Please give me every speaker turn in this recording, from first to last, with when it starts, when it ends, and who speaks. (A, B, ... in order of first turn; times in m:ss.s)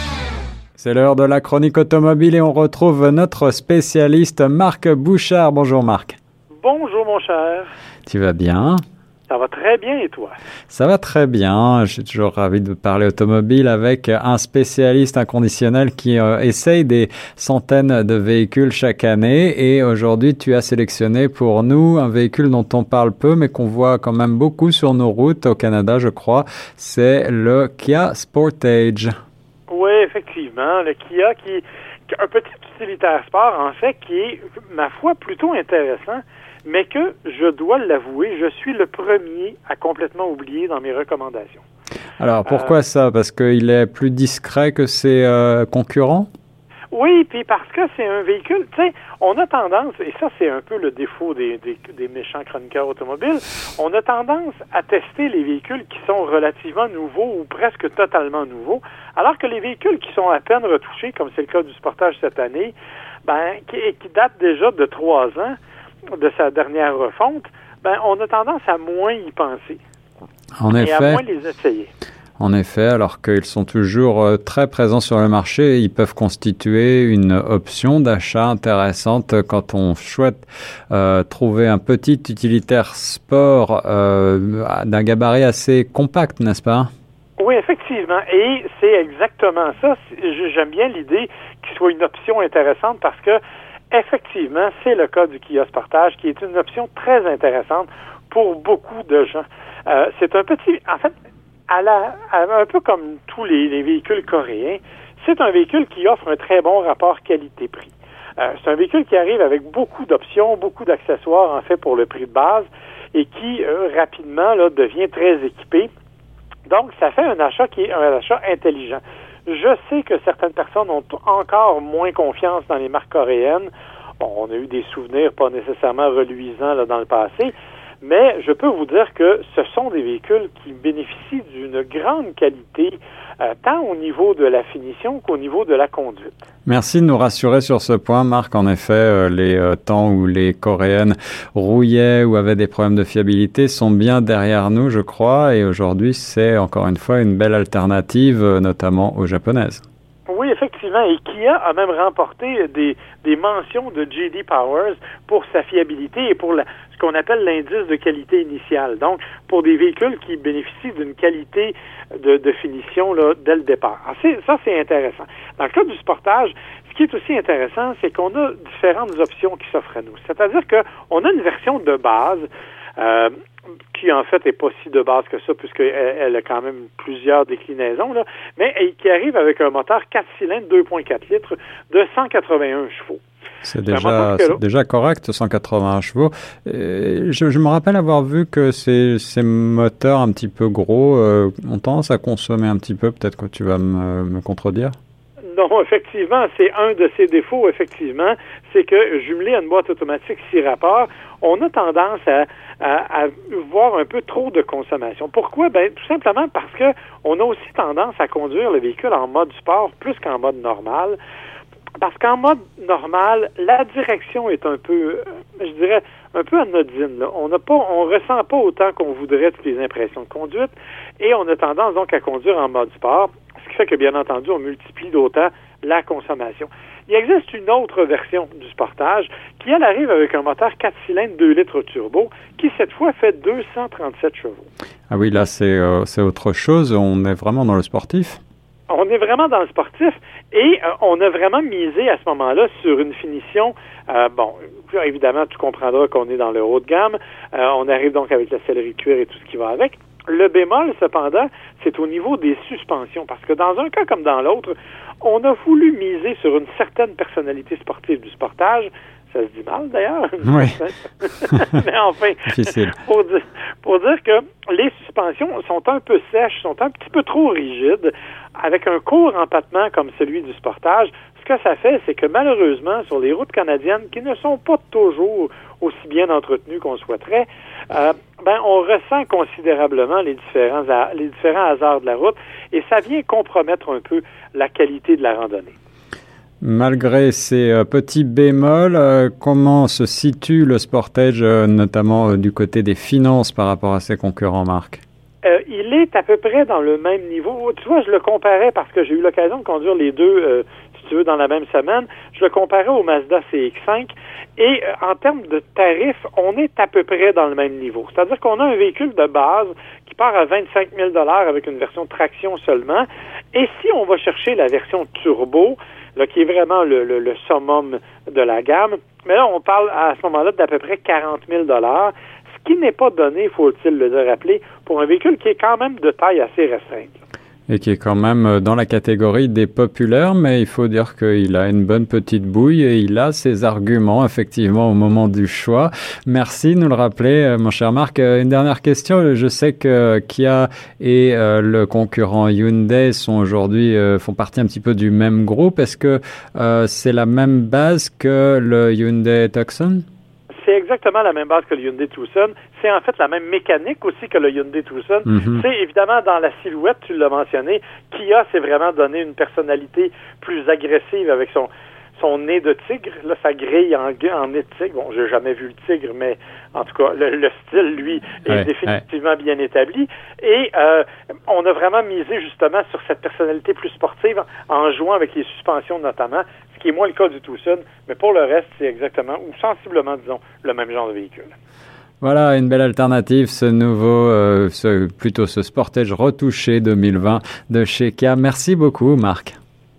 0:00.8-0:06.2 A
0:06.6-0:07.7 B
0:08.1-0:08.8 A
0:09.3-0:10.4 B
0:10.7-0:29.1 A
0:29.7-0:41.6 B
0:42.2-0:46.3 A
0:42.5-0:42.7 B
0:46.9-1:05.6 B
1:06.2-1:09.8 B
1:10.6-1:11.2 A
1:10.8-1:11.9 B
1:12.4-1:26.9 A
1:27.4-1:33.4 B
1:33.9-1:41.1 B
1:41.7-1:55.9 B
1:56.7-2:16.4 B
2:16.7-2:29.8 A
2:30.3-2:53.3 B
2:53.9-3:03.2 B
3:03.6-3:14.9 A
3:03.9-3:04.6 B
3:15.5-3:31.2 B
3:32.0-3:54.6 B
3:55.1-3:58.4 A
3:58.9-4:45.7 B
4:20.4-4:20.8 A
4:22.5-4:23.0 A
4:46.6-4:55.0 A
4:55.4-5:27.2 B
5:27.7-5:50.0 A
5:50.6-6:21.5 B
5:55.3-5:55.6 A
6:08.5-6:09.0 A
6:22.2-6:29.6 A